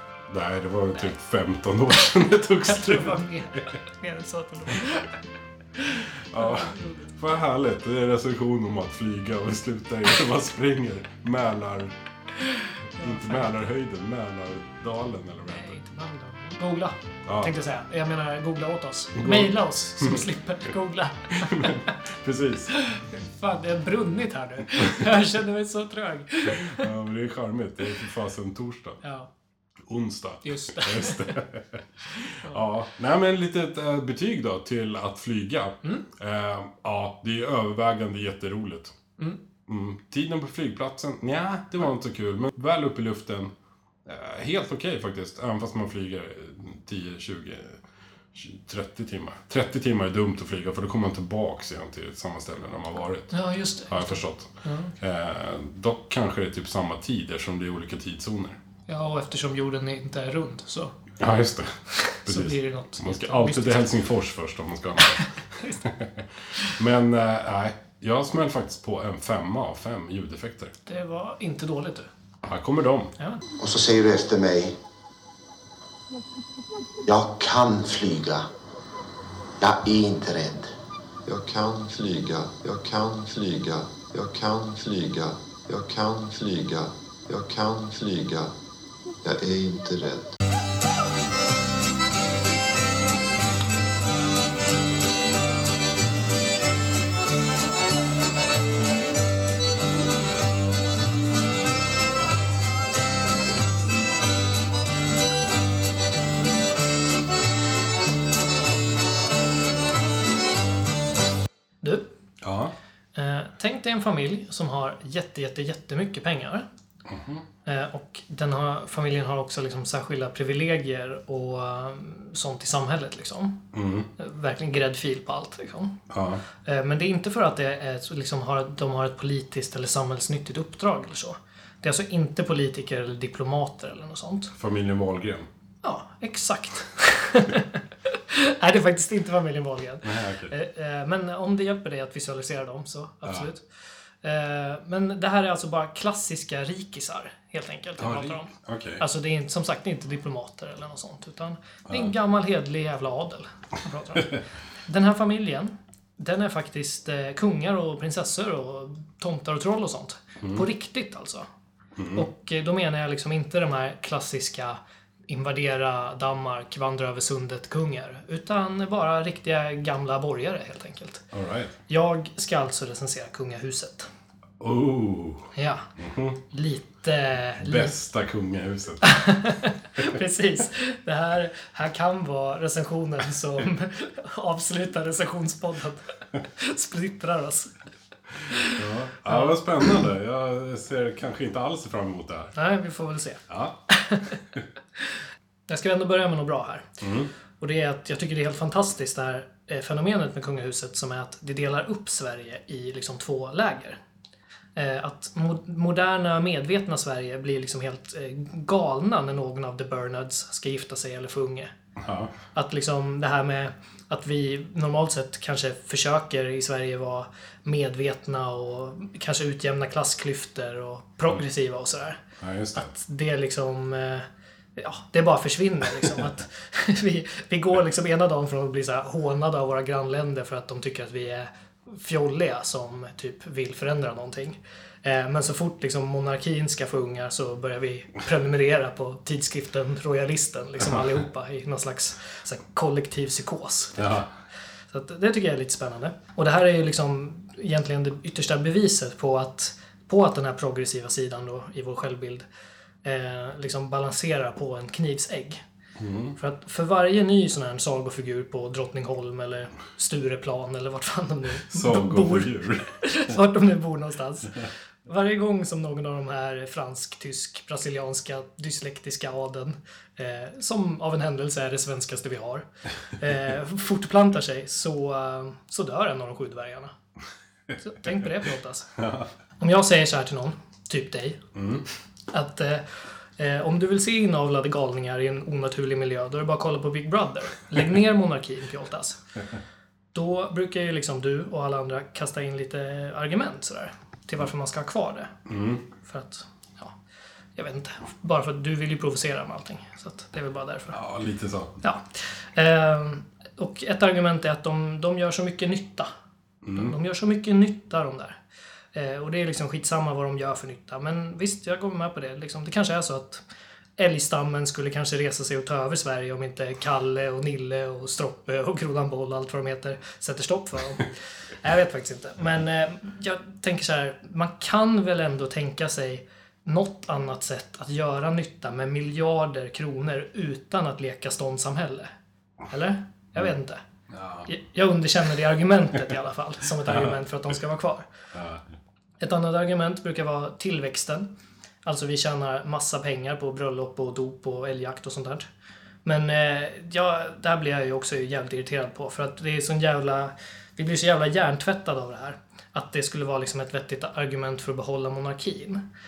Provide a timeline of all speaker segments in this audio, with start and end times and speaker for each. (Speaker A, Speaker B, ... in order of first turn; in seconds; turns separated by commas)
Speaker A: 0.3-3.7, Speaker B: 2.6-5.2, Speaker B: 5.8-7.1, Speaker A: 6.3-11.9, Speaker B: 12.4-13.6, Speaker A: 13.0-15.8, Speaker B: 15.4-21.9, Speaker A: 17.2-17.5, Speaker A: 19.1-20.2, Speaker A: 21.3-22.7, Speaker B: 22.7-26.9, Speaker A: 26.4-29.0, Speaker B: 29.0-29.3, Speaker A: 29.9-38.9, Speaker B: 30.4-31.3, Speaker A: 39.7-43.5, Speaker A: 44.1-47.8, Speaker A: 48.3-53.4, Speaker B: 53.3-54.9, Speaker A: 53.9-58.6, Speaker B: 58.9-60.9, Speaker A: 61.2-70.7, Speaker B: 62.0-63.9, Speaker B: 65.0-65.7, Speaker B: 70.9-72.1, Speaker A: 72.4-73.1, Speaker B: 73.2-73.4, Speaker C: 73.6-74.8, Speaker C: 77.0-78.5, Speaker C: 79.6-80.7, Speaker D: 81.2-88.5, Speaker D: 89.2-90.3, Speaker B: 111.8-112.1, Speaker A: 112.4-112.7, Speaker B: 113.1-116.7, Speaker A: 117.1-117.4, Speaker B: 117.7-123.7, Speaker A: 123.7-124.1, Speaker B: 124.2-126.0, Speaker A: 126.1-126.4, Speaker B: 126.6-134.5, Speaker A: 134.5-135.5, Speaker B: 135.8-143.6, Speaker A: 140.0-140.5, Speaker B: 144.2-161.5, Speaker A: 148.0-149.0, Speaker A: 162.0-162.2, Speaker B: 162.1-171.2, Speaker A: 171.3-171.8, Speaker B: 171.9-174.1, Speaker A: 174.6-176.4, Speaker B: 175.6-175.9, Speaker B: 176.5-177.9, Speaker A: 177.6-179.2, Speaker B: 179.0-187.7, Speaker B: 188.5-189.9, Speaker A: 188.7-192.6, Speaker B: 192.6-194.4, Speaker A: 193.5-193.8, Speaker B: 195.7-196.9, Speaker A: 197.0-197.3, Speaker B: 197.6-204.0, Speaker B: 204.7-211.7, Speaker A: 212.0-212.3, Speaker B: 212.6-222.2, Speaker A: 222.4-222.9, Speaker B: 222.7-244.1, Speaker A: 244.0-244.3, Speaker B: 244.9-252.5, Speaker B: 253.0-255.6, Speaker A: 256.0-256.4, Speaker B: 256.4-272.7, Speaker A: 261.7-263.0, Speaker B: 273.2-276.9, Speaker B: 277.8-278.9, Speaker A: 278.9-279.3, Speaker B: 279.6-281.4, Speaker A: 281.6-281.9, Speaker B: 282.3-289.2, Speaker B: 290.1-295.4, Speaker A: 295.5-295.9, Speaker B: 295.9-296.9, Speaker B: 297.6-301.0, Speaker A: 300.9-301.8, Speaker B: 301.8-306.1, Speaker A: 306.6-306.9, Speaker B: 306.7-308.4, Speaker B: 308.9-313.4, Speaker B: 314.0-321.1, Speaker B: 321.6-332.1, Speaker B: 332.7-333.8, Speaker A: 334.1-334.5, Speaker B: 334.5-338.1, Speaker A: 336.8-337.1, Speaker A: 338.3-338.6, Speaker B: 339.2-341.3, Speaker B: 341.8-345.5, Speaker B: 346.1-355.8